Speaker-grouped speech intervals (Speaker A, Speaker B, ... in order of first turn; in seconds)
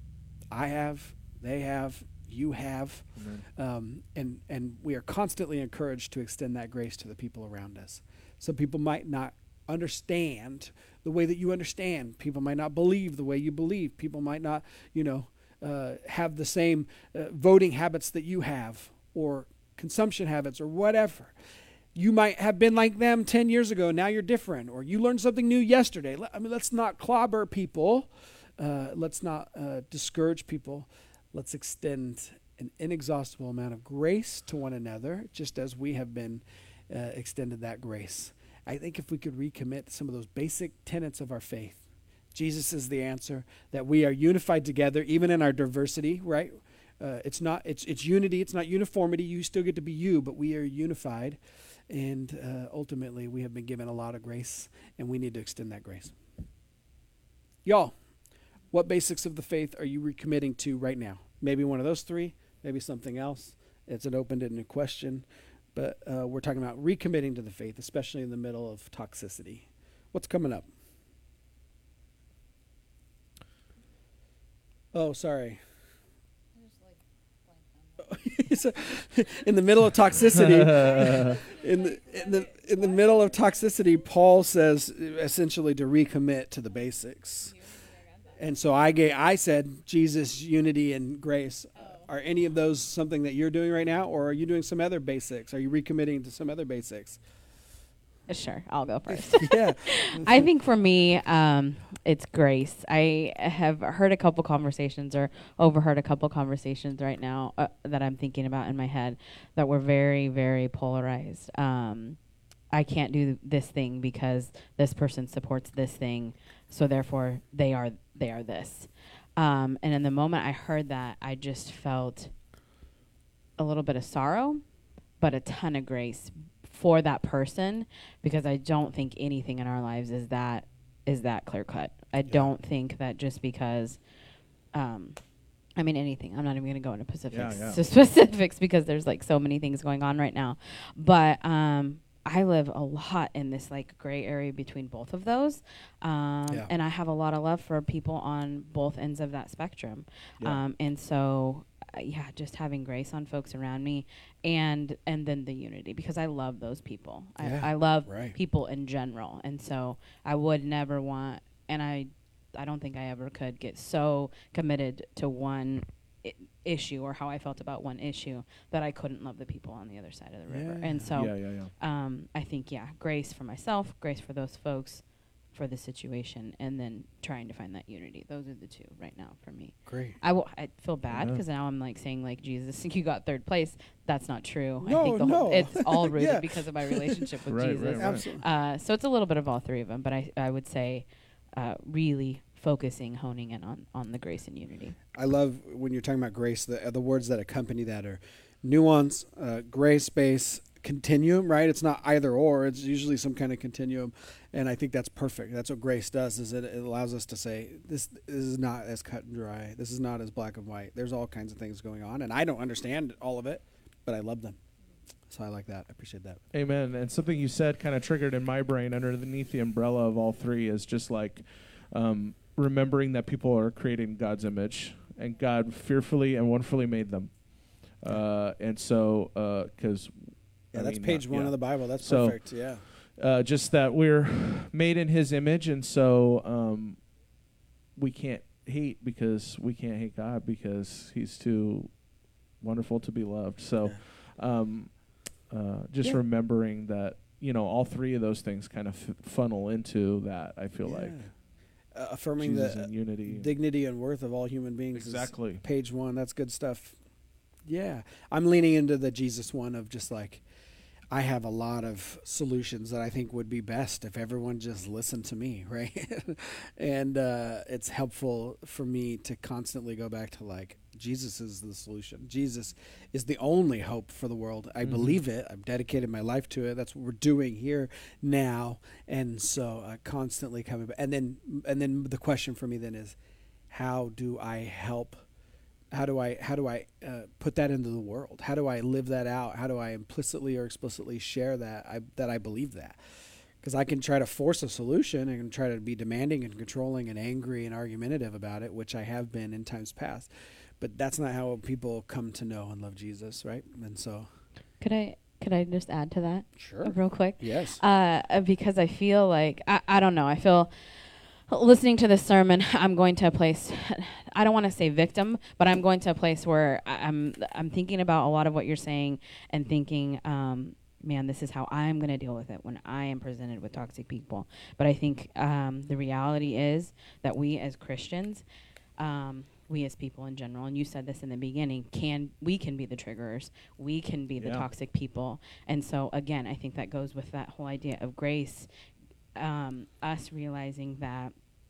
Speaker A: 0.5-21.3, 21.9-41.8, 42.3-56.1, 57.6-57.9, 58.7-70.7, 74.9-75.6, 78.0-87.7, 88.4-97.2, 99.1-100.5, 157.4-158.4, 170.5-171.1, 179.9-180.2, 184.8-187.3, 187.9-188.4, 195.1-214.6, 215.3-216.4, 230.7-232.8, 250.8-251.3, 251.9-257.0, 257.7-260.4, 261.1-283.2, 283.7-285.2, 285.9-293.0, 293.6-300.3, 300.8-304.3, 306.6-307.8
Speaker B: 3.2-3.4, 80.3-81.5, 137.3-137.8, 171.2-171.7, 181.1-181.4, 187.5-188.2, 216.5-227.3, 228.0-230.2, 230.7-232.4, 233.2-237.0, 238.0-241.9, 242.6-244.9, 245.5-251.2, 252.4-253.5, 254.9-255.6, 274.8-275.2, 334.4-334.7
Speaker C: 98.3-112.2, 112.7-122.3, 123.6-124.6, 125.2-134.0, 134.7-135.2, 135.8-195.0, 304.8-310.7, 311.5-328.4, 329.0-338.7, 339.4-341.3